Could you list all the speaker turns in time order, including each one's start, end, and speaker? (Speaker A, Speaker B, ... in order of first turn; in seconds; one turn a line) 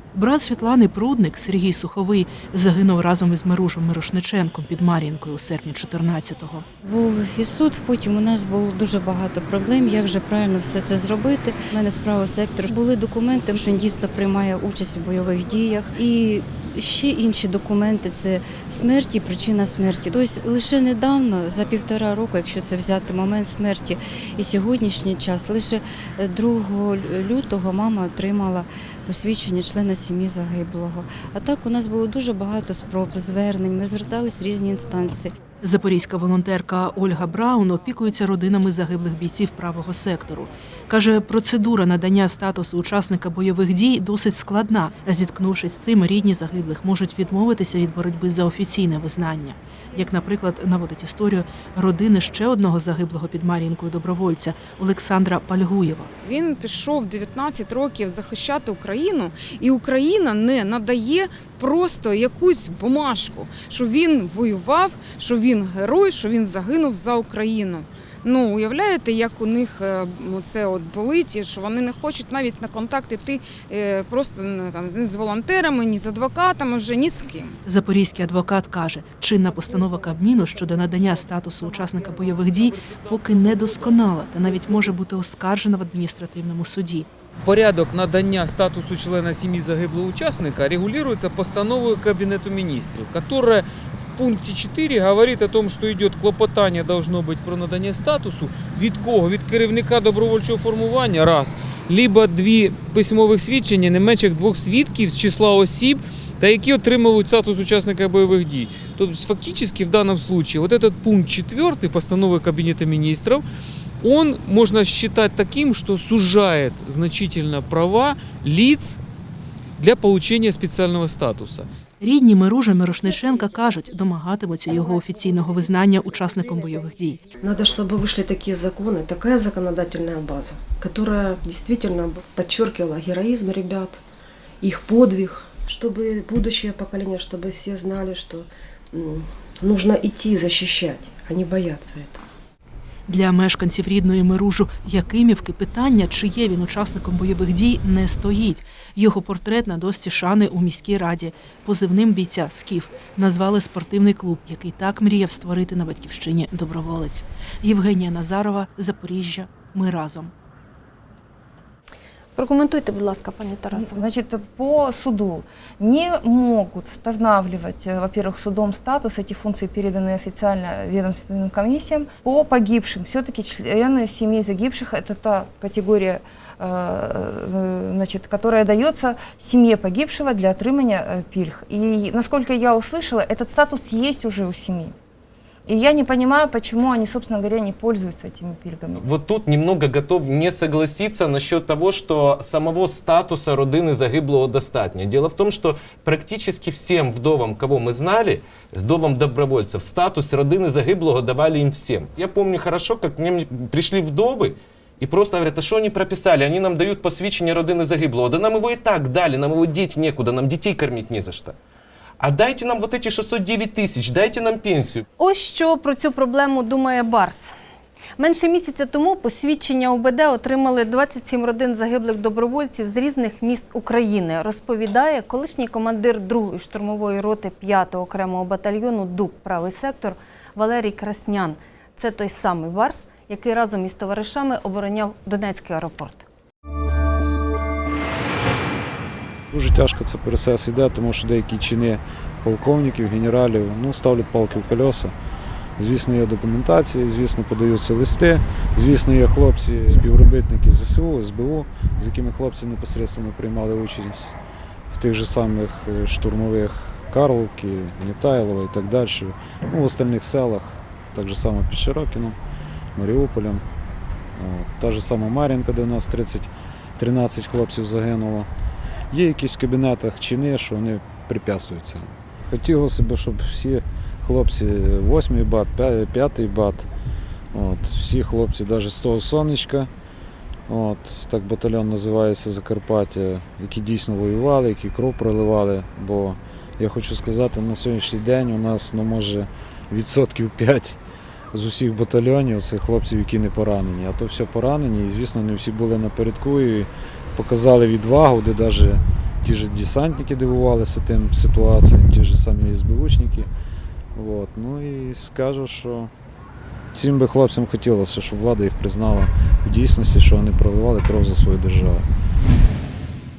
Speaker A: 0.1-6.7
Speaker B: 6.8-35.4
Speaker A: 35.6-56.1
Speaker C: 56.2-77.6
Speaker A: 77.7-87.1
Speaker D: 87.4-113.5
Speaker D: 114.0-119.0
Speaker D: 119.8-121.7
Speaker A: 122.0-127.2
Speaker E: 127.4-134.0
Speaker E: 134.6-142.2
Speaker A: 143.1-160.3
Speaker F: 162.4-164.0
Speaker G: 163.7-184.9
Speaker G: 185.7-189.0
Speaker H: 189.0-211.6
Speaker H: 212.2-215.1
Speaker F: 215.2-217.5
Speaker F: 218.2-236.3
Speaker I: 239.5-245.1
Speaker I: 245.8-254.3
Speaker I: 254.9-262.4
Speaker I: 263.0-263.6
Speaker I: 264.4-268.5
Speaker I: 269.1-276.9
Speaker I: 277.5-279.9
Speaker I: 280.7-291.0
Speaker I: 291.5-303.5
Speaker I: 304.1-306.1
Speaker I: 306.9-312.1